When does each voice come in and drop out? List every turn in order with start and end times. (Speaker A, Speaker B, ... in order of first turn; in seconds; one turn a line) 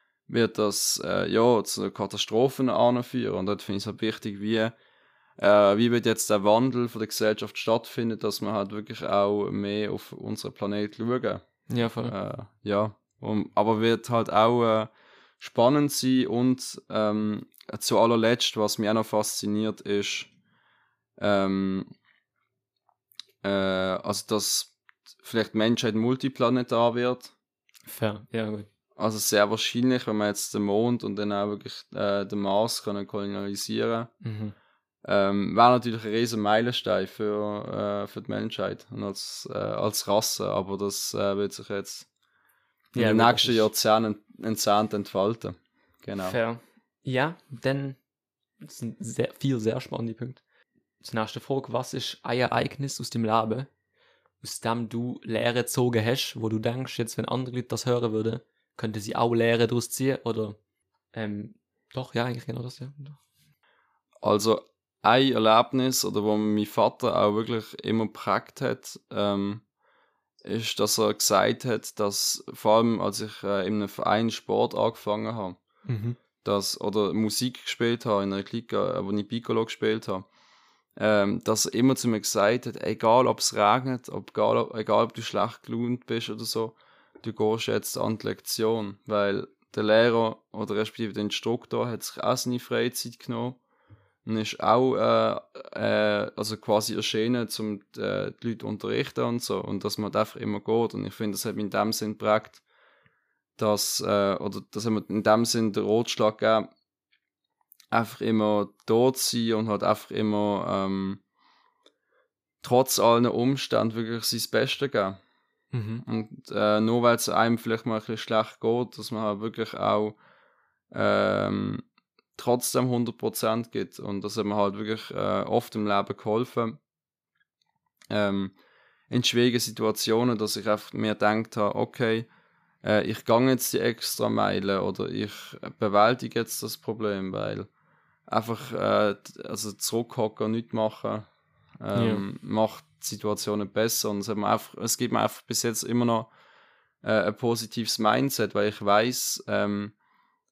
Speaker A: 0.3-4.7
Speaker A: 5.4-20.3
Speaker B: 11.7-12.1
Speaker A: 21.2-21.9
Speaker A: 23.4-27.3
Speaker B: 27.9-28.7
Speaker A: 28.9-34.1
Speaker B: 34.2-34.5
Speaker A: 35.0-42.1
Speaker B: 42.9-43.7
Speaker A: 43.0-46.4
Speaker B: 46.2-48.0
Speaker B: 48.6-50.4
Speaker B: 51.0-53.7
Speaker B: 54.4-60.6
Speaker B: 61.1-63.2
Speaker A: 64.2-69.6
Speaker A: 70.4-75.6
Speaker B: 75.9-76.2
Speaker A: 76.4-80.3
Speaker A: 81.0-93.6
Speaker A: 94.2-102.6
Speaker A: 103.6-106.7
Speaker A: 107.9-111.2
Speaker A: 112.6-115.2
Speaker B: 115.7-116.0
Speaker A: 116.0-120.2
Speaker A: 120.9-121.8
Speaker A: 122.4-126.8
Speaker A: 128.1-128.5
Speaker A: 129.1-132.3
Speaker A: 132.8-137.7
Speaker A: 138.3-141.3
Speaker A: 141.8-146.3
Speaker B: 141.9-142.2
Speaker A: 147.0-149.9